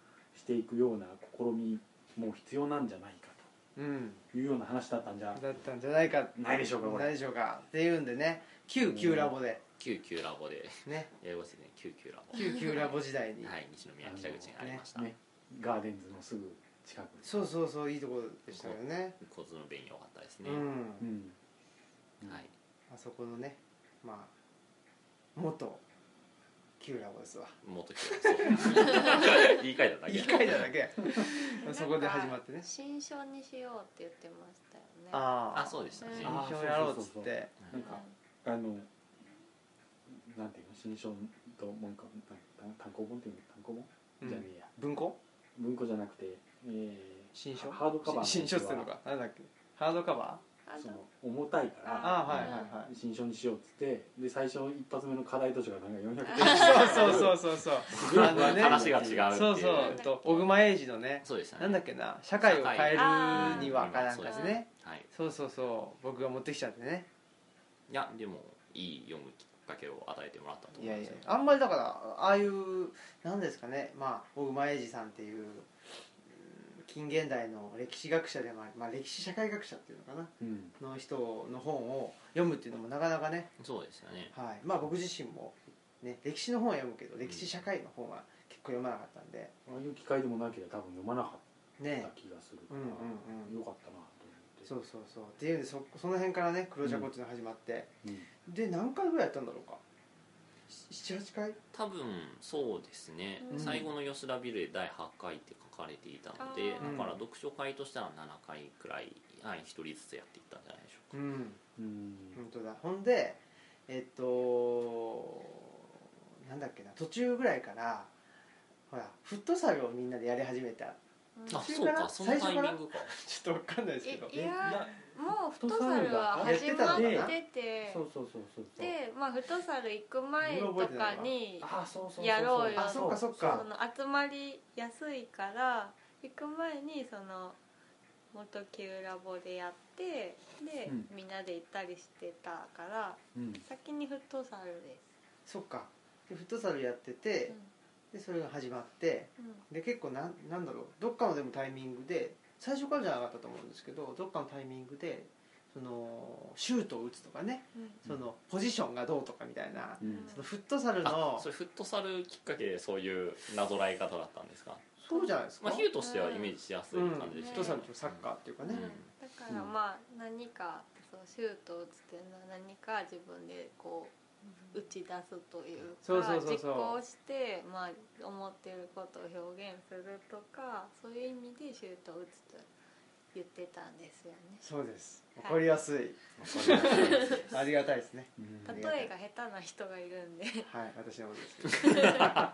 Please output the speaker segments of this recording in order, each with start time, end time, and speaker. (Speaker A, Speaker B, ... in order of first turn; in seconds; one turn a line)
Speaker A: 0.3-3.5
Speaker B: 3.8-4.2
Speaker A: 4.3-5.5
Speaker B: 5.3-9.6
Speaker A: 6.3-7.2
Speaker A: 8.8-9.3
Speaker C: 9.8-15.1
Speaker B: 10.8-11.1
Speaker B: 12.3-13.5
Speaker A: 14.0-17.5
Speaker B: 17.2-19.2
Speaker C: 18.5-20.7
Speaker B: 20.4-21.1
Speaker A: 21.0-21.4
Speaker C: 22.3-22.5
Speaker B: 22.9-24.3
Speaker B: 25.4-25.8
Speaker B: 26.8-27.6
Speaker C: 27.6-30.7
Speaker B: 28.4-29.2
Speaker B: 30.1-32.7
Speaker D: 31.2-35.3
Speaker B: 35.1-37.5
Speaker C: 35.5-36.4
Speaker D: 36.0-36.4
Speaker A: 36.2-38.9
Speaker D: 37.7-38.1
Speaker A: 40.1-44.7
Speaker B: 44.2-45.2
Speaker A: 45.5-48.9
Speaker B: 47.3-50.4
Speaker D: 50.6-51.0
Speaker A: 50.8-59.4
Speaker D: 51.8-52.6
Speaker B: 52.0-52.9
Speaker D: 56.3-57.3
Speaker B: 56.4-67.1
Speaker C: 58.0-60.0
Speaker D: 59.7-60.5
Speaker C: 61.2-61.8
Speaker C: 62.4-65.1
Speaker D: 62.9-64.6
Speaker C: 67.9-71.3
Speaker B: 70.8-75.7
Speaker B: 76.2-83.5
Speaker A: 80.4-80.8
Speaker C: 83.6-84.3
Speaker B: 84.3-89.5
Speaker A: 89.7-94.7
Speaker B: 91.8-92.1
Speaker B: 92.7-93.5
Speaker B: 94.7-97.9
Speaker A: 96.8-97.1
Speaker A: 98.0-98.3
Speaker B: 98.5-99.8
Speaker B: 100.7-101.6
Speaker C: 101.7-111.1
Speaker D: 103.4-103.8
Speaker B: 103.5-103.9
Speaker D: 106.4-107.0
Speaker B: 106.8-107.2
Speaker B: 111.1-111.6
Speaker A: 111.8-112.4
Speaker B: 112.3-118.1
Speaker B: 118.9-121.0
Speaker D: 121.4-121.7
Speaker B: 121.5-124.6
Speaker C: 121.5-123.2
Speaker D: 124.0-128.1
Speaker A: 124.6-128.9
Speaker B: 126.4-127.3
Speaker D: 128.8-137.6
Speaker B: 130.4-131.3
Speaker A: 131.6-133.7
Speaker B: 132.8-133.7
Speaker D: 138.3-145.0
Speaker A: 143.3-143.6
Speaker B: 145.5-147.6
Speaker B: 148.1-161.5
Speaker D: 149.4-149.6
Speaker A: 160.0-160.3
Speaker D: 160.0-160.5
Speaker C: 161.0-164.9
Speaker B: 165.0-165.9
Speaker C: 165.6-169.1
Speaker D: 166.0-166.6
Speaker B: 166.9-168.8
Speaker D: 167.3-167.9
Speaker D: 168.7-182.7
Speaker B: 176.0-177.0
Speaker D: 183.3-184.7
Speaker B: 184.6-189.1
Speaker A: 186.4-187.5
Speaker D: 186.8-187.5
Speaker A: 188.4-188.9
Speaker D: 188.7-190.7
Speaker B: 190.7-192.4
Speaker D: 191.8-192.3